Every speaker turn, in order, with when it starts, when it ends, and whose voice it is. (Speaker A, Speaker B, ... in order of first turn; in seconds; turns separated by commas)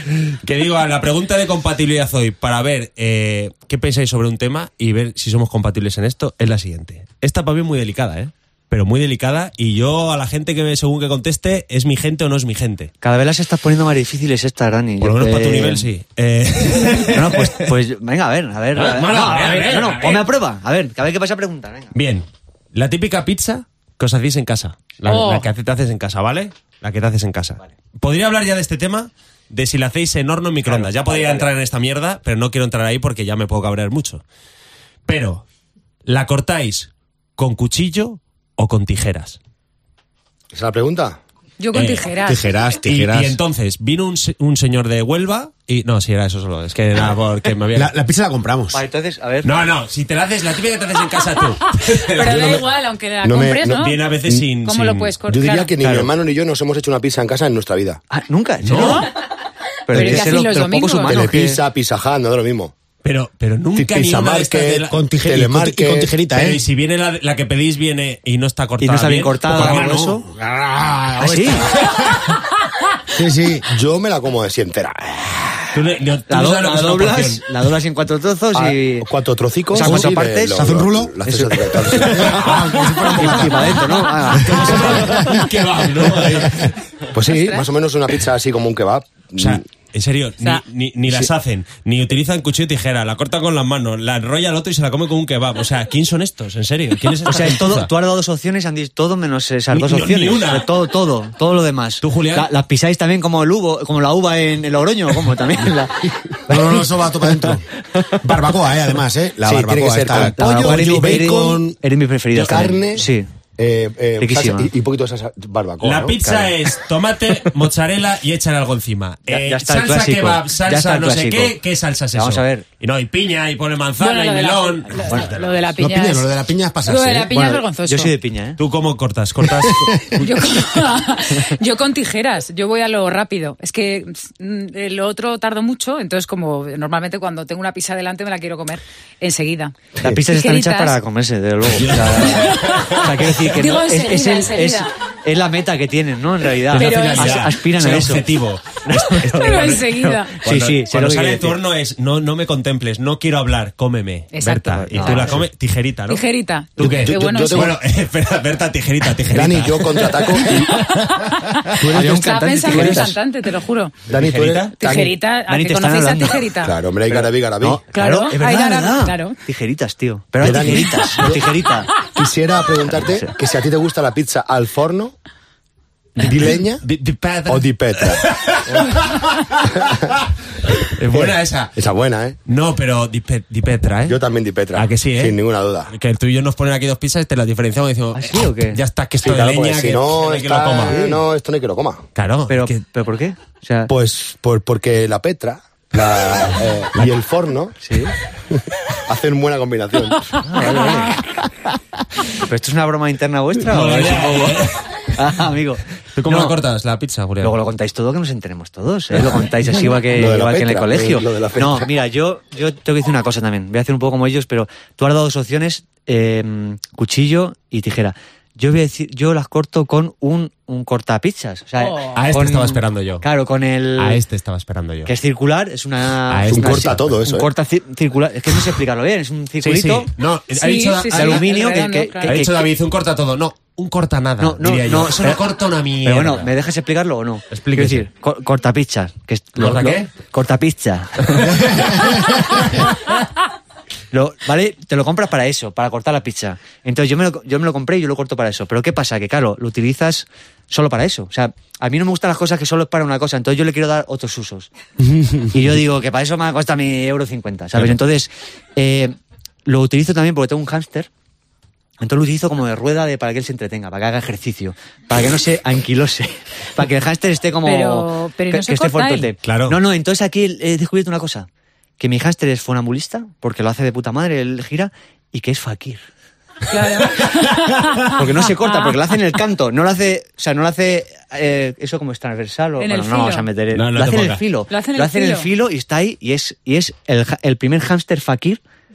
Speaker A: 0.3-12.9, Speaker B: 13.0-15.9, Speaker A: 15.0-17.7, Speaker B: 17.1-21.9, Speaker A: 18.7-20.3, Speaker A: 21.9-34.2, Speaker C: 25.1-25.5, Speaker B: 31.0-31.4, Speaker A: 35.1-35.4, Speaker A: 36.1-39.4, Speaker D: 40.5-41.2, Speaker C: 41.6-42.5, Speaker A: 41.7-42.1, Speaker E: 42.2-43.4, Speaker A: 42.9-47.9, Speaker E: 47.7-48.8, Speaker B: 48.7-49.5, Speaker A: 49.4-52.6, Speaker C: 52.1-54.0, Speaker D: 53.2-54.4, Speaker A: 53.7-55.1, Speaker C: 54.6-55.7, Speaker D: 55.2-58.0, Speaker B: 55.8-56.1, Speaker B: 58.1-59.1, Speaker A: 58.6-59.1, Speaker C: 58.7-59.1, Speaker B: 59.9-61.6, Speaker C: 59.9-61.1, Speaker D: 61.1-62.7, Speaker A: 63.0-65.0, Speaker D: 63.7-66.2, Speaker E: 64.9-66.6, Speaker A: 66.3-70.2, Speaker B: 68.8-70.3, Speaker E: 70.3-72.0, Speaker B: 71.2-71.7, Speaker E: 73.1-73.7, Speaker D: 73.7-75.5, Speaker A: 75.7-77.4, Speaker B: 76.3-79.1, Speaker D: 78.5-82.5, Speaker B: 79.7-80.7, Speaker E: 79.8-83.8, Speaker B: 81.2-85.4, Speaker A: 82.4-83.8, Speaker A: 84.3-86.8, Speaker D: 87.1-89.6, Speaker C: 87.2-87.6, Speaker A: 89.4-97.9, Speaker B: 97.2-108.1, Speaker A: 99.7-100.7, Speaker A: 102.0-102.5, Speaker E: 106.5-111.8, Speaker D: 109.4-111.2, Speaker B: 110.1-113.3, Speaker A: 112.3-112.7, Speaker D: 112.4-116.4, Speaker B: 114.2-114.7, Speaker A: 115.8-125.7, Speaker B: 119.3-121.6, Speaker B: 122.1-122.6, Speaker C: 124.0-126.3, Speaker B: 125.0-125.3, Speaker E: 125.8-127.3, Speaker C: 126.8-128.1, Speaker B: 127.3-128.6, Speaker A: 128.6-130.1, Speaker E: 129.7-130.0, Speaker C: 130.2-141.0, Speaker B: 140.0-148.2, Speaker A: 141.8-143.4, Speaker C: 142.3-144.9, Speaker C: 146.7-147.5, Speaker A: 146.7-156.2, Speaker B: 148.8-151.6, Speaker C: 149.3-150.4, Speaker C: 154.3-155.4, Speaker B: 154.7-155.4, Speaker C: 156.1-157.7, Speaker D: 156.8-157.8, Speaker A: 156.8-160.4, Speaker D: 159.3-160.7, Speaker D: 161.8-162.3, Speaker B: 161.8-163.2, Speaker C: 162.0-163.9, Speaker D: 164.1-165.1, Speaker A: 164.1-164.7, Speaker C: 164.8-166.7, Speaker B: 165.5-166.5, Speaker D: 166.6-167.8, Speaker B: 167.1-171.9, Speaker C: 167.9-169.4, Speaker D: 170.4-171.4, Speaker D: 172.0-175.2, Speaker D: 176.2-176.9, Speaker A: 176.3-181.7, Speaker D: 177.4-178.3, Speaker D: 181.1-182.4, Speaker A: 182.4-184.2, Speaker D: 184.1-185.9, Speaker A: 184.7-185.4, Speaker A: 185.9-191.0, Speaker B: 188.1-188.8, Speaker D: 189.2-192.1, Speaker B: 190.9-191.2, Speaker A: 192.1-192.7, Speaker B: 192.5-193.9, Speaker D: 193.9-197.8, Speaker B: 197.8-198.1, Speaker D: 198.5-200.4, Speaker B: 200.4-201.2, Speaker B: 202.4-206.6, Speaker A: 203.7-205.1, Speaker A: 206.2-207.6, Speaker B: 207.4-224.2, Speaker D: 209.9-211.9, Speaker C: 221.8-222.2, Speaker A: 222.1-223.2, Speaker A: 224.0-225.1, Speaker B: 225.1-230.1, Speaker A: 226.3-227.2, Speaker D: 226.5-227.5, Speaker A: 229.6-231.5, Speaker C: 230.5-232.4, Speaker B: 231.1-232.7, Speaker A: 232.2-236.5, Speaker B: 234.4-235.4, Speaker B: 236.0-241.7, Speaker A: 237.5-238.1, Speaker A: 239.6-240.1, Speaker A: 241.3-241.9, Speaker B: 244.1-254.7, Speaker B: 255.5-261.1, Speaker B: 262.0-271.5, Speaker C: 267.6-269.3, Speaker A: 269.4-269.8, Speaker B: 272.0-276.0, Speaker C: 276.7-278.9, Speaker B: 278.1-288.6, Speaker C: 282.8-283.5, Speaker A: 283.7-284.4, Speaker C: 284.7-285.5